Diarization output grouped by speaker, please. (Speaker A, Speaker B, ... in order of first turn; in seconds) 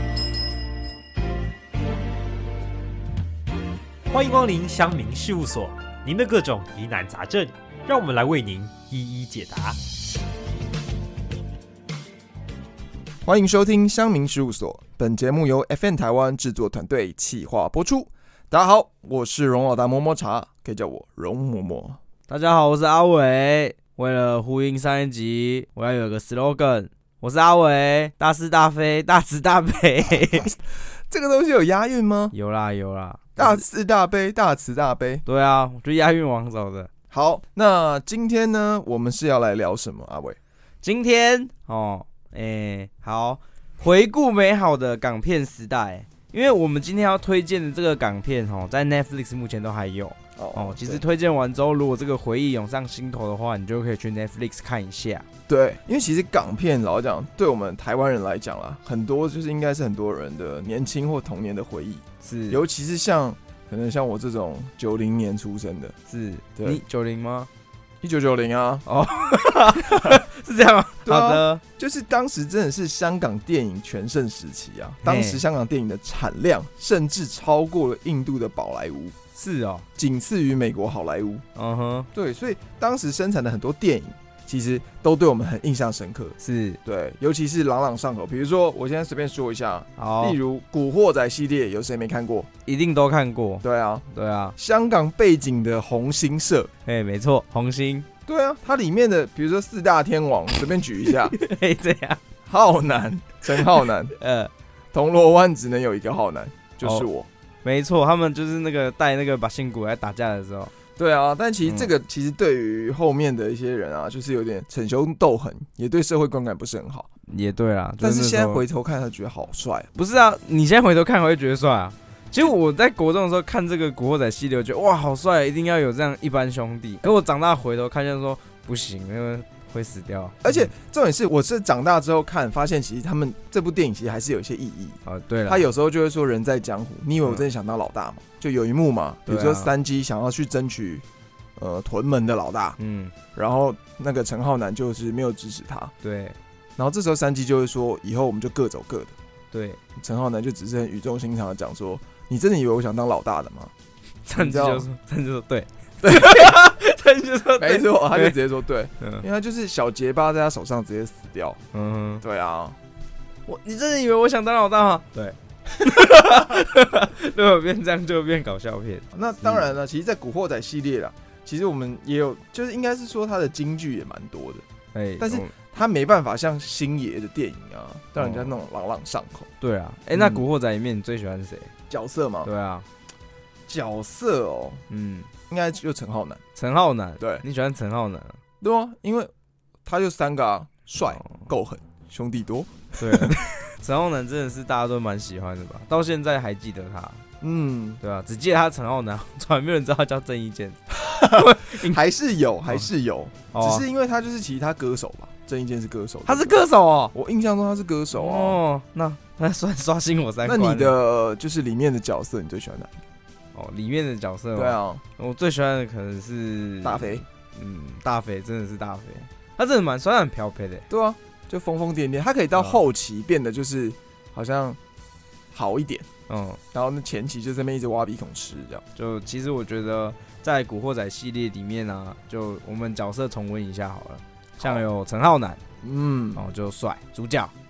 Speaker A: 4.1-9.8
Speaker B: 13.2-22.0, 31.1-32.3, 33.4-35.2, 37.1-40.4, 50.4-51.0, 55.5-65.9, 66.5-66.8, 68.0-68.8, 69.8-70.2, 71.0-79.1, 80.0-81.4, 82.1-92.5, 93.6-94.0, 94.5-96.7, 98.2-101.3, 102.5-104.1, 104.9-107.3, 111.0-117.1, 118.0-119.9, 130.4-141.0, 141.6-142.8, 143.3-145.9, 146.8-149.1, 149.9-153.7, 154.3-154.9, 156.0-156.6, 157.6-161.6, 162.2-162.8, 169.1-174.6, 175.2-179.5, 180.1-180.4, 181.9-182.5, 183.7-184.8, 185.5-186.4, 187.2-187.4, 188.6-189.3, 189.8-193.4, 197.4-198.0, 200.9-208.6, 210.4-213.0, 214.5-215.0, 216.8-217.2, 220.9-224.8, 225.5-226.1, 226.7-228.8, 235.8-236.4
Speaker C: 22.3-30.5, 32.3-33.6, 35.2-36.9, 40.8-55.2, 62.2-62.6, 66.1-67.5, 68.8-71.6, 75.0-75.4, 79.3-79.8, 81.5-82.1, 86.4-86.8, 90.0-90.4, 92.7-94.5, 96.8-98.0, 101.0-102.2, 103.5-104.5, 106.8-107.1, 107.6-110.7, 117.3-118.6, 119.9-130.7, 135.0-135.7, 139.2-139.7, 142.8-143.1, 146.0-146.4, 149.5-149.8, 154.2-158.4, 159.0-159.2, 161.7-162.2, 163.4-169.7, 174.9-175.5, 178.2-178.5, 179.6-181.7, 182.4-182.8, 184.9-185.3, 186.5-188.4, 193.0-197.2, 198.0-202.0, 203.5-203.8, 206.2-207.1, 208.1-210.9, 213.5-220.8, 222.5-222.8, 226.3-226.6, 228.9-235.6, 236.3-237.5